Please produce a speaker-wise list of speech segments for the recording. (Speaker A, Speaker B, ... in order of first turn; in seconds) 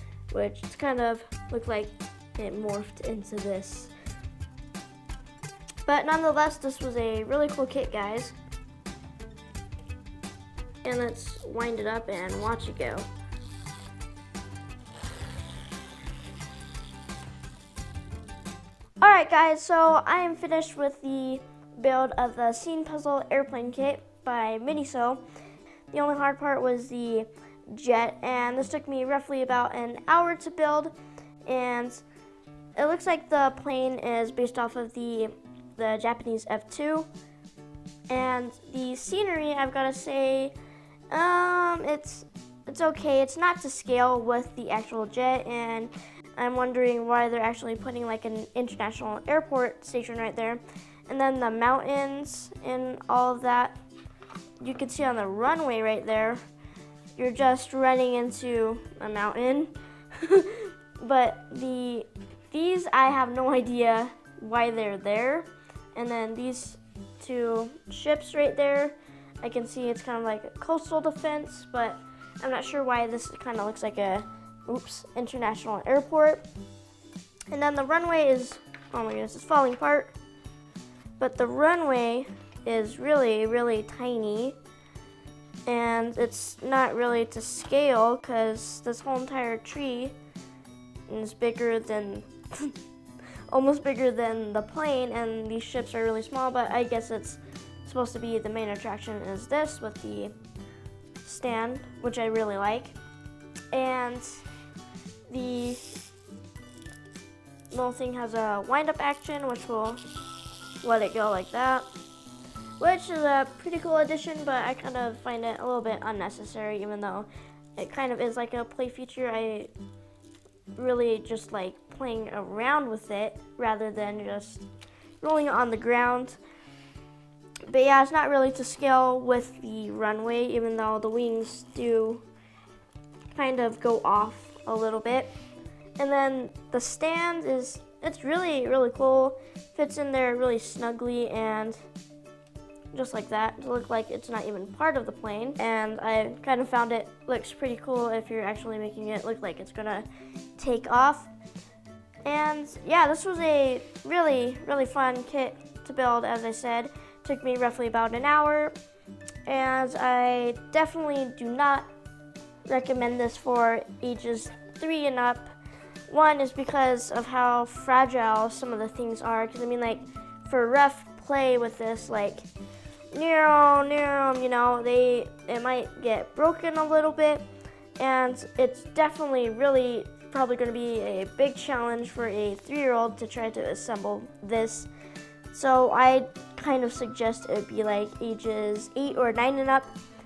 Speaker A: 0.3-3.9, 5.9-8.4, 10.8-13.1, 19.0-25.2, 25.9-30.9, 31.4-32.0, 32.8-37.1, 38.1-40.5, 41.1-53.8, 54.6-56.4, 57.2-76.5, 77.5-80.2, 81.2-84.6, 85.7-90.2, 91.1-92.8, 93.5-100.4, 101.2-103.0, 103.7-104.4, 105.3-106.1, 107.7-110.0, 110.8-111.9, 112.8-119.7, 120.8-124.7, 125.2-126.4, 127.7-132.3, 133.3-135.3, 136.0-141.8, 142.9-151.3, 152.2-158.8, 159.5-161.9, 162.7-165.5, 166.1-172.5, 173.1-177.5, 178.0-184.9, 185.5-189.9